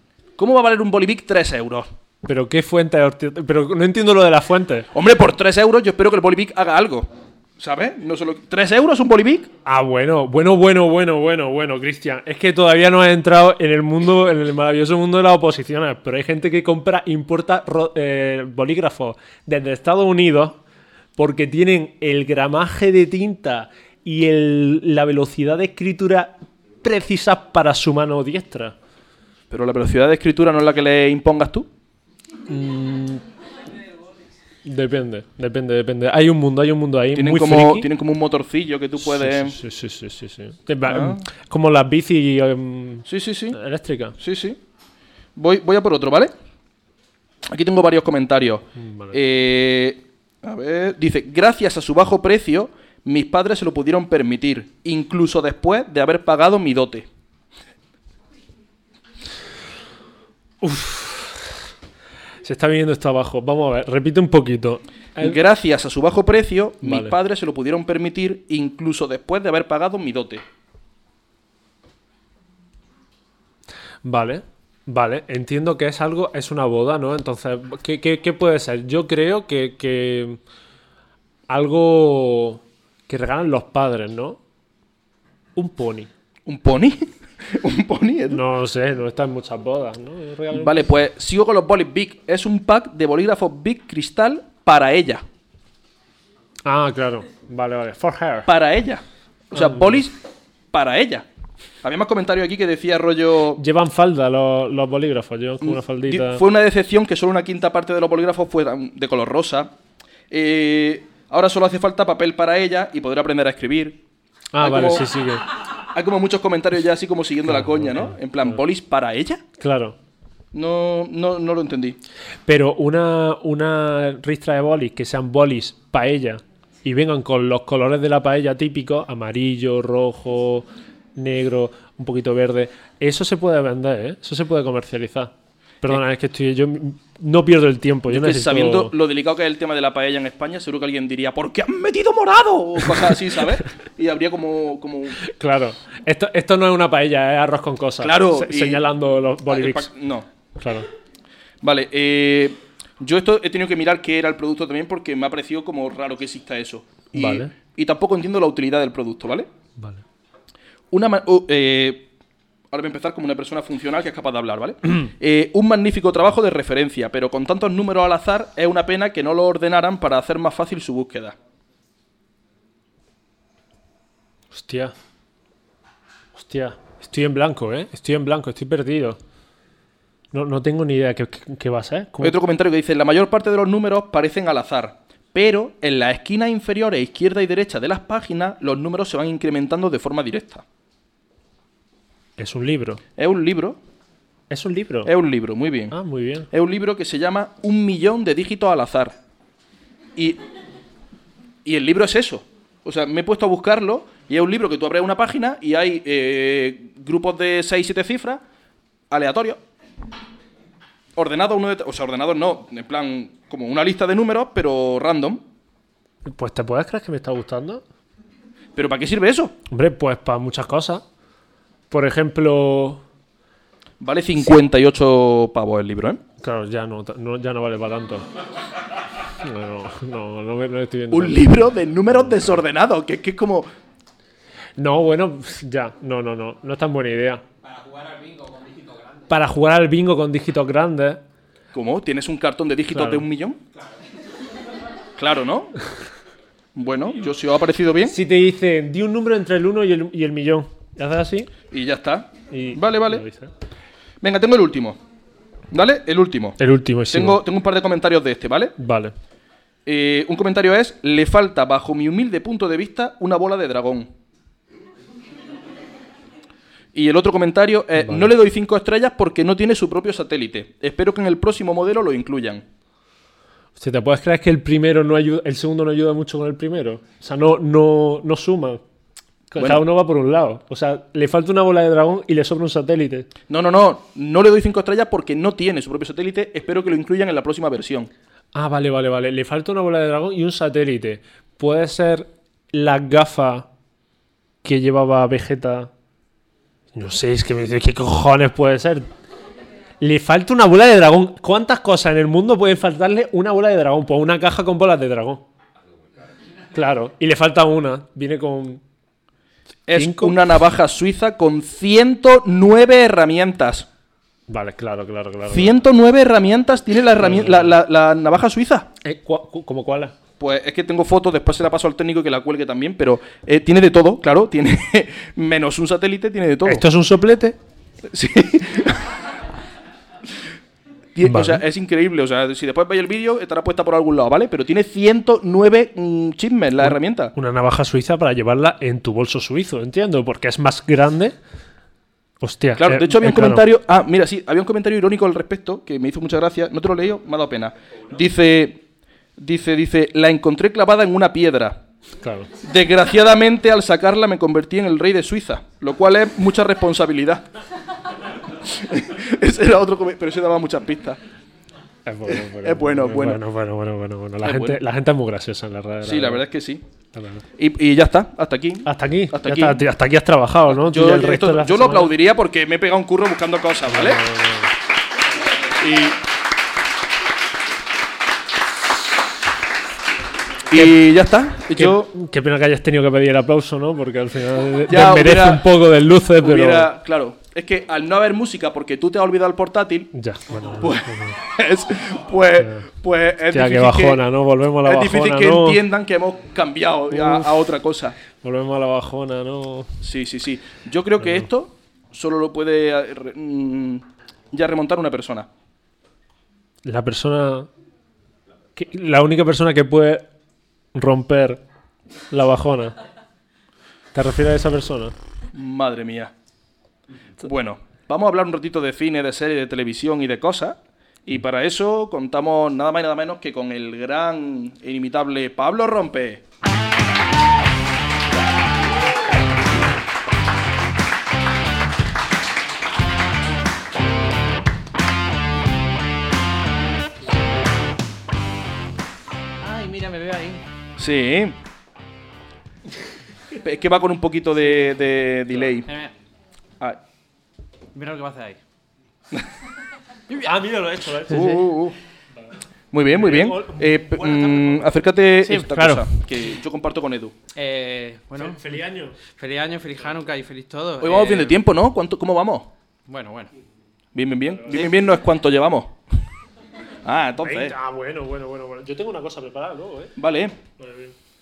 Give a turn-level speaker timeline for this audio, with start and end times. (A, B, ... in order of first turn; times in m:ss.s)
0:00.4-0:01.9 A
0:02.2-0:04.9 B
0:04.9-0:09.5 A
0:09.6-0:20.6 B
0:21.2-0:28.8 B
0:29.5-0:31.7 A
0:32.5-0:33.2 B
0:34.6-0:37.9 B
0:37.2-0:39.6 A
0:39.0-0:44.2 B
0:40.9-0:41.3 A
0:43.1-0:43.6 A
0:44.2-0:44.6 A
0:45.4-0:46.3 A
0:47.5-0:57.1 A
0:48.8-0:49.2 B
1:00.6-1:01.6 B
1:02.4-1:05.4 B
1:05.2-1:10.4 A
1:06.8-1:07.2 B
1:14.0-1:20.4 B
1:21.5-1:24.4 B
1:25.6-1:26.1 B
1:26.5-1:28.4 A
1:28.3-1:30.9 B
1:30.5-1:35.2 A
1:36.6-1:38.5 B
1:38.5-1:40.2 A
1:39.5-1:40.0 B
1:40.7-1:41.3 A
1:41.8-1:43.6 A
1:43.6-1:46.4 B
1:45.6-1:49.7 A
1:50.3-1:54.0 A
1:54.5-1:55.4 B
1:54.6-1:55.1 A
1:55.9-1:59.4 A
1:57.5-1:58.6 B
1:59.6-2:00.0 B
2:00.5-2:02.0 A
2:02.5-2:18.9 B
2:18.1-2:25.2 A
2:25.2-2:29.9 B
2:28.0-2:28.8 A
2:29.5-2:30.3 A
2:30.6-2:30.9 B
2:31.6-2:39.5 A
2:37.1-2:37.5 B
2:39.8-2:40.0 B
2:40.9-2:42.1 A
2:42.7-2:51.4 A
2:54.5-2:54.9 B
2:56.3-2:59.2 B
3:00.3-3:02.4 B
3:02.2-3:10.6 A
3:12.4-3:13.0 B
3:13.2-3:13.8 A
3:14.5-3:15.1 B
3:15.0-3:16.0 A
3:15.9-3:16.5 B
3:16.5-3:19.2 A
3:21.6-3:28.4 A
3:29.1-3:29.6 A
3:31.2-3:35.4 A
3:36.2-3:37.8 B
3:38.8-3:39.5 A
3:39.7-3:41.0 B
3:41.9-3:43.0 B
3:44.0-3:46.2 A
3:46.4-3:48.3 B
3:49.4-3:52.6 B
3:51.1-3:53.7 A
3:54.8-3:57.4 B
3:59.3-4:01.2 B
4:01.7-4:03.6 A
4:02.9-4:03.3 B
4:05.2-4:05.8 A
4:06.8-4:08.2 A
4:08.0-4:11.5 B
4:11.7-4:13.2 A
4:12.5-4:13.5 B
4:14.2-4:15.0 A
4:15.7-4:18.8 A
4:16.6-4:17.4 B
4:18.8-4:19.1 B
4:19.9-4:24.1 A
4:26.9-4:32.6 A
4:28.0-4:28.3 B
4:33.8-4:38.8 B
4:39.5-4:43.3 B
4:39.6-4:39.8 A
4:43.5-4:48.1 A
4:48.5-4:53.7 B
4:54.6-4:55.9 B
4:56.9-4:59.1 B
5:00.0-5:05.5 B
5:06.7-5:08.8 B
5:09.9-5:13.9 A
5:09.9-5:10.4 B
5:14.5-5:15.7 B
5:15.5-5:18.9 A
5:17.2-5:17.7 B
5:19.0-5:20.2 B
5:20.4-5:26.8 A
5:26.6-5:27.6 B
5:28.1-5:29.2 A
5:31.2-5:37.3 A
5:31.2-5:31.6 B
5:36.8-5:41.4 B
5:42.4-5:43.7 B
5:42.8-5:48.8 A
5:49.4-5:51.8 A
5:52.2-5:52.5 B
5:52.6-5:57.4 A
5:58.6-6:01.2 A
6:02.0-6:06.4 B
6:02.3-6:03.4 A
6:04.4-6:04.8 A
6:06.0-6:06.8 A
6:07.1-6:07.4 B
6:07.6-6:09.8 A
6:08.8-6:12.1 B
6:10.7-6:14.2 A
6:13.9-6:14.8 B
6:15.6-6:16.2 A
6:20.7-6:22.1 A
6:20.7-6:21.0 B
6:21.7-6:26.9 B
6:24.9-6:25.6 A
6:26.4-6:30.1 A
6:30.1-6:31.4 B
6:30.6-6:34.2 A
6:32.6-6:32.9 B
6:33.5-6:35.8 B
6:34.8-6:38.2 A
6:37.1-6:37.5 B
6:38.4-6:40.0 B
6:40.0-6:45.5 A
6:46.8-6:47.7 B
6:48.8-6:50.3 B
6:50.9-6:51.6 B
6:52.3-6:53.0 B
6:54.1-6:55.2 B
6:55.5-6:56.3 A
6:57.4-7:06.4 A
7:19.6-7:20.6 C
7:21.0-7:21.6 A
7:23.6-7:25.9 A
7:25.8-7:26.1 C
7:27.9-7:28.6 C
7:30.3-7:31.7 B
7:31.3-7:32.0 A
7:32.9-7:37.4 A
7:33.1-7:34.9 B
7:35.4-7:36.2 C
7:37.6-7:38.7 C
7:38.4-7:39.2 B
7:39.3-7:41.6 C
7:41.0-7:42.7 A
7:43.1-7:43.5 C
7:44.1-7:46.0 A
7:44.5-7:44.9 B
7:47.0-7:47.8 A
7:47.4-7:50.1 B
7:50.2-7:50.6 A
7:50.8-7:51.2 B